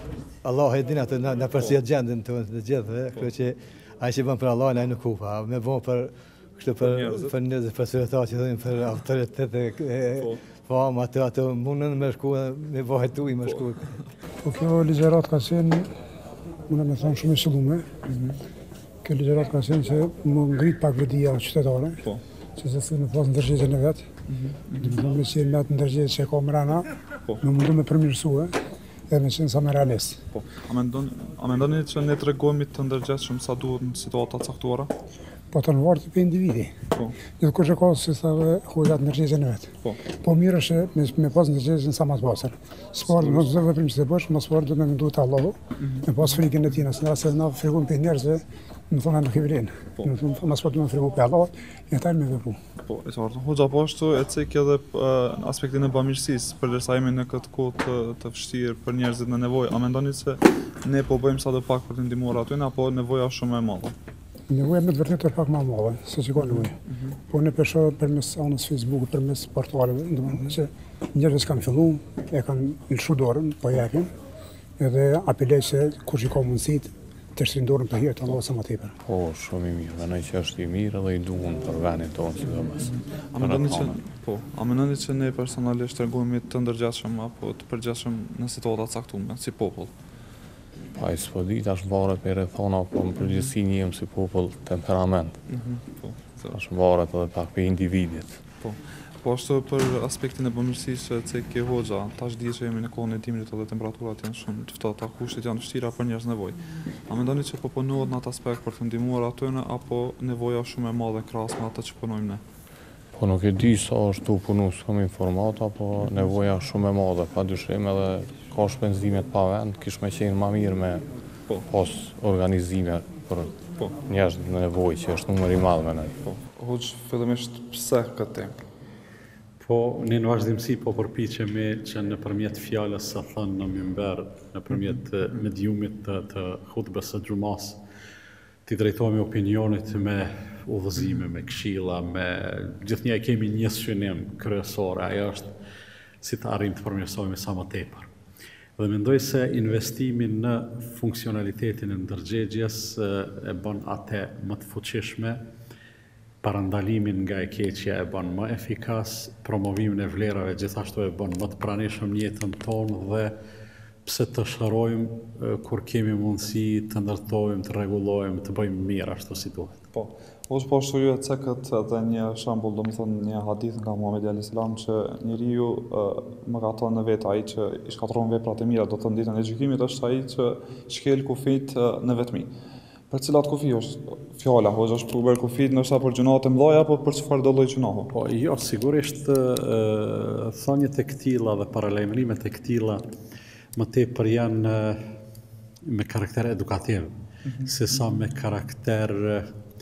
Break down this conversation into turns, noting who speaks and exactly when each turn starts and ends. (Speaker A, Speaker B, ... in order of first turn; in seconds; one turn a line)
Speaker A: 0.4-13.8
Speaker B: 6.8-7.4
Speaker C: 14.4-15.9
Speaker C: 16.7-17.9
Speaker B: 18.1-18.4
Speaker C: 19.0-22.0
Speaker C: 22.6-24.1
Speaker B: 24.3-24.9
Speaker C: 24.8-26.9
Speaker C: 27.4-28.6
Speaker C: 29.1-30.2
Speaker B: 30.3-34.9
Speaker C: 35.5-36.8
Speaker C: 37.4-52.6
Speaker B: 43.1-43.6
Speaker B: 45.8-46.2
Speaker B: 52.8-64.0
Speaker C: 64.5-66.8
Speaker B: 66.4-66.7
Speaker C: 67.3-74.1
Speaker C: 74.8-79.0
Speaker D: 79.1-84.0
Speaker B: 82.8-89.9
Speaker D: 91.0-95.4
Speaker B: 93.2-93.5
Speaker B: 95.5-96.6
Speaker D: 96.5-98.4
Speaker B: 98.6-112.4
Speaker D: 113.2-121.1
Speaker D: 121.7-126.2
Speaker B: 126.2-128.6
Speaker E: 129.6-137.8
Speaker E: 138.7-145.5
Speaker E: 146.2-148.1
Speaker E: 148.8-155.4
Speaker E: 156.4-163.3
Speaker E: 164.1-169.8
Speaker B: 169.9-182.5
Speaker B: 183.1-188.1
Speaker E: 188.1-193.0
Speaker E: 193.8-195.1
Speaker E: 195.8-199.5